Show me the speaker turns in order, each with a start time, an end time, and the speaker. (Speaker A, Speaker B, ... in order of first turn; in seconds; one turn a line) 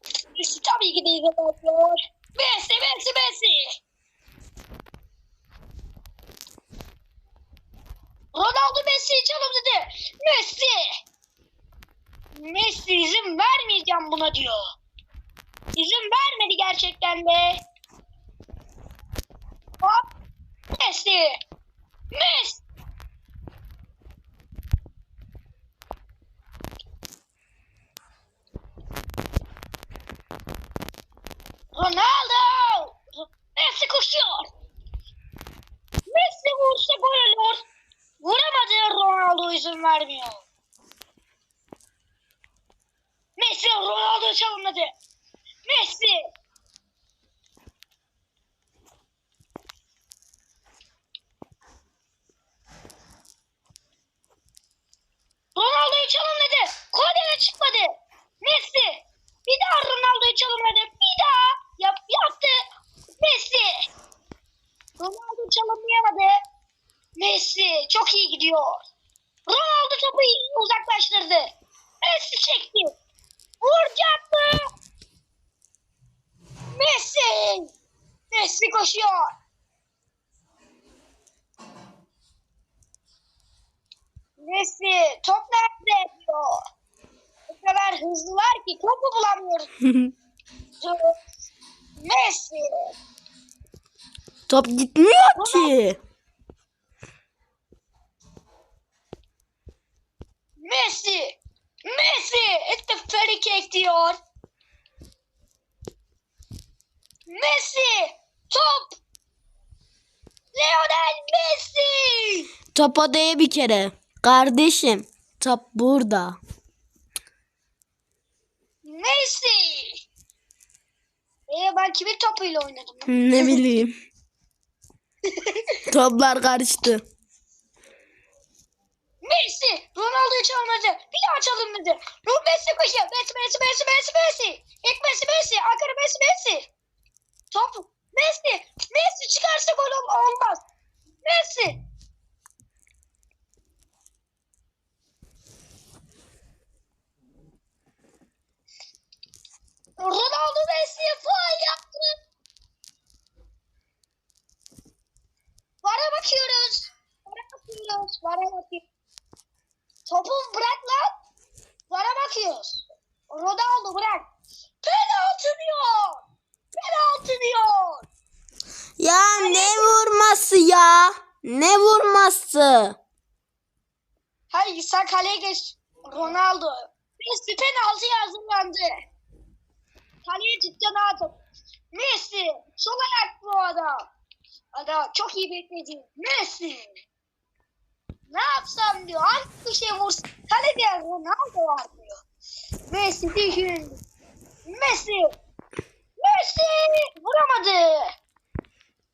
Speaker A: 0.3-3.8
Speaker A: 8.3-11.0
Speaker A: 12.3-14.6
Speaker A: 15.8-17.6
Speaker A: 20.8-21.4
Speaker A: 22.1-22.6
Speaker A: 31.8-34.5
Speaker A: 36.1-37.7
Speaker A: 38.2-40.4
Speaker A: 43.4-45.0
Speaker A: 45.6-46.3
Speaker A: 55.6-62.7
Speaker A: 63.2-63.9
Speaker A: 65.0-66.4
Speaker A: 67.2-68.8
Speaker A: 69.5-73.0
Speaker A: 73.6-74.7
Speaker A: 76.7-77.7
Speaker A: 78.3-79.3
Speaker A: 84.4-86.6
Speaker A: 87.5-89.7
Speaker B: 89.8-90.1
Speaker A: 90.8-91.2
Speaker A: 92.0-92.9
Speaker B: 94.5-96.0
Speaker A: 95.4-95.8
Speaker A: 100.6-104.2
Speaker A: 107.3-109.0
Speaker A: 110.5-112.5
Speaker B: 112.7-116.4
Speaker A: 118.8-120.0
Speaker A: 121.5-123.7
Speaker B: 123.1-123.9
Speaker A: 125.2-125.8
Speaker B: 125.9-127.0
Speaker A: 129.2-136.7
Speaker A: 137.5-140.6
Speaker A: 141.2-141.8
Speaker A: 150.0-152.2
Speaker A: 155.8-158.8
Speaker A: 160.1-161.1
Speaker A: 161.9-164.3
Speaker A: 164.8-166.2
Speaker A: 166.8-168.1
Speaker B: 169.0-173.0
Speaker A: 169.4-169.9
Speaker A: 174.5-179.0
Speaker A: 180.2-181.3
Speaker A: 181.9-184.1
Speaker A: 184.8-187.0
Speaker A: 188.3-192.2
Speaker A: 192.9-194.0
Speaker A: 194.7-195.3
Speaker A: 196.2-198.1